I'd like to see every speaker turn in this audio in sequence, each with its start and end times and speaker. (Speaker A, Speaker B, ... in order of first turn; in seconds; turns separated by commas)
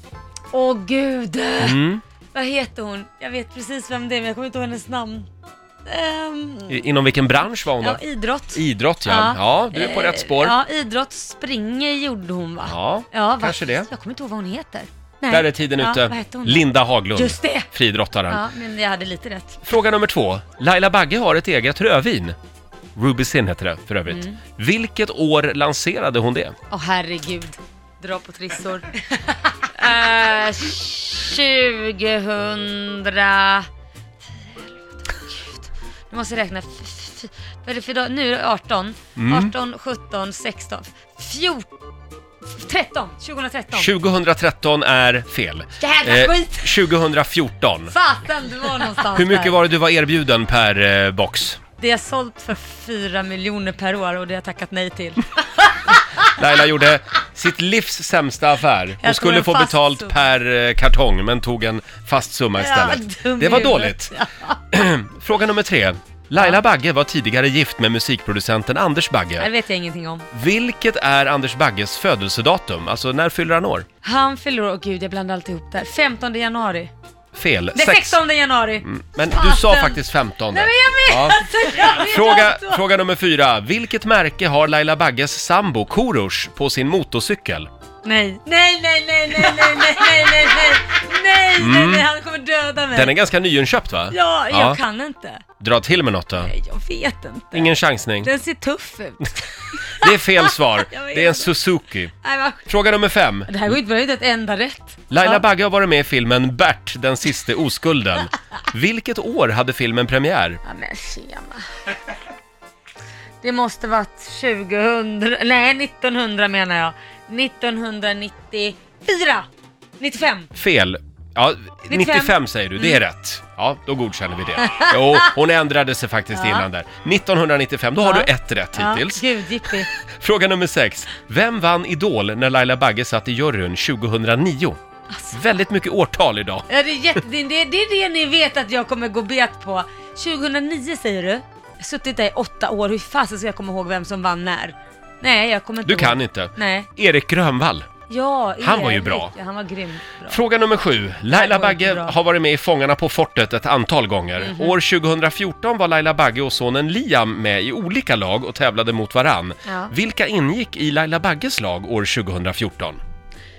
Speaker A: 0.5-1.8, Speaker B: 1.6-2.0, Speaker A: 2.3-5.3, Speaker A: 5.9-6.8, Speaker B: 6.7-8.0, Speaker A: 7.6-17.7, Speaker B: 8.5-10.6, Speaker B: 12.6-13.9, Speaker B: 15.3-18.4, Speaker A: 18.3-19.6, Speaker B: 19.6-22.4, Speaker B: 23.0-26.6, Speaker A: 24.1-24.4, Speaker A: 26.7-33.7, Speaker A: 34.4-41.7, Speaker B: 39.2-39.5, Speaker A: 42.5-43.9, Speaker B: 43.7-48.0, Speaker A: 45.8-46.9, Speaker A: 47.9-49.6, Speaker B: 49.1-51.6, Speaker A: 51.8-56.4, Speaker B: 56.2-64.1, Speaker A: 59.0-60.2, Speaker A: 62.6-64.6, Speaker B: 64.7-69.5, Speaker A: 69.4-70.3, Speaker B: 70.3-73.9, Speaker A: 74.0-76.9, Speaker B: 77.3-78.2, Speaker A: 77.7-82.8, Speaker B: 78.8-87.7, Speaker A: 88.0-93.2, Speaker B: 91.6-92.1, Speaker B: 92.9-94.8, Speaker A: 94.1-95.4, Speaker B: 95.6-96.5, Speaker A: 96.4-102.8, Speaker B: 97.5-98.3, Speaker B: 100.0-102.1, Speaker B: 102.7-103.7, Speaker A: 103.5-105.5, Speaker B: 105.1-110.6, Speaker A: 110.7-111.7, Speaker A: 113.4-119.5, Speaker A: 120.0-120.5, Speaker B: 120.5-129.2, Speaker A: 121.9-123.0, Speaker A: 124.6-125.3, Speaker A: 126.3-126.7, Speaker A: 128.0-129.9, Speaker B: 129.8-134.8, Speaker A: 135.1-135.6, Speaker B: 135.3-136.7, Speaker A: 136.7-146.9, Speaker B: 145.8-147.9, Speaker A: 148.1-150.4, Speaker B: 148.6-149.3, Speaker B: 150.3-163.0, Speaker A: 151.3-152.2, Speaker A: 154.4-154.8, Speaker A: 159.7-159.9